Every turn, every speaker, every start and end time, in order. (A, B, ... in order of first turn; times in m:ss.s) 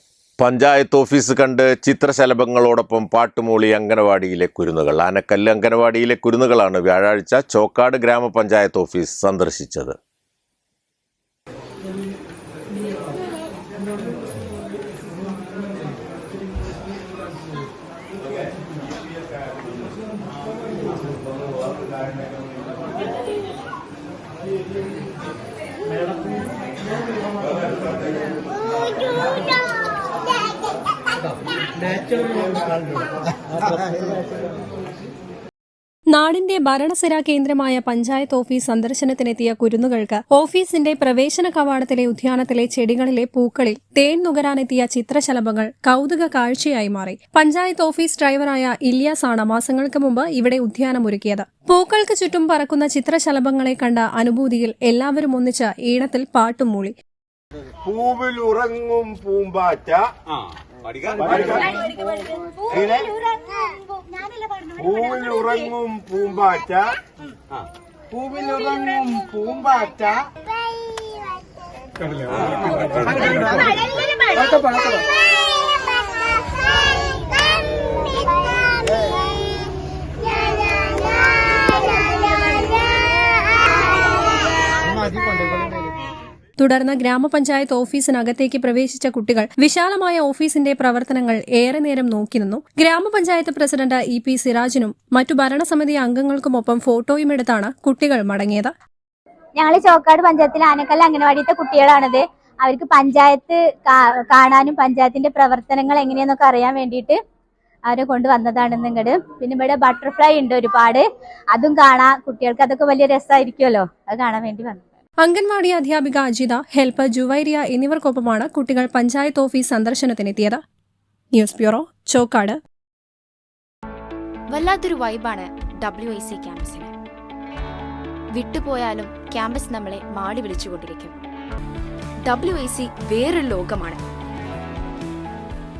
0:00.4-0:09.9 A
0:36.1-0:56.9 B
0:57.8-1:00.1 C
1:01.2-1:01.8 C
1:02.7-1:03.2 C
1:04.8-1:07.0 C
1:08.1-1:10.2 C
1:13.0-1:13.5 C
1:26.6-1:38.7 B
1:39.6-1:47.2 D
1:47.9-1:54.8 D
1:55.2-2:00.6 B
2:01.3-2:02.6 B
2:04.5-2:06.9 E
2:08.3-2:11.2 E
2:12.2-2:14.0 E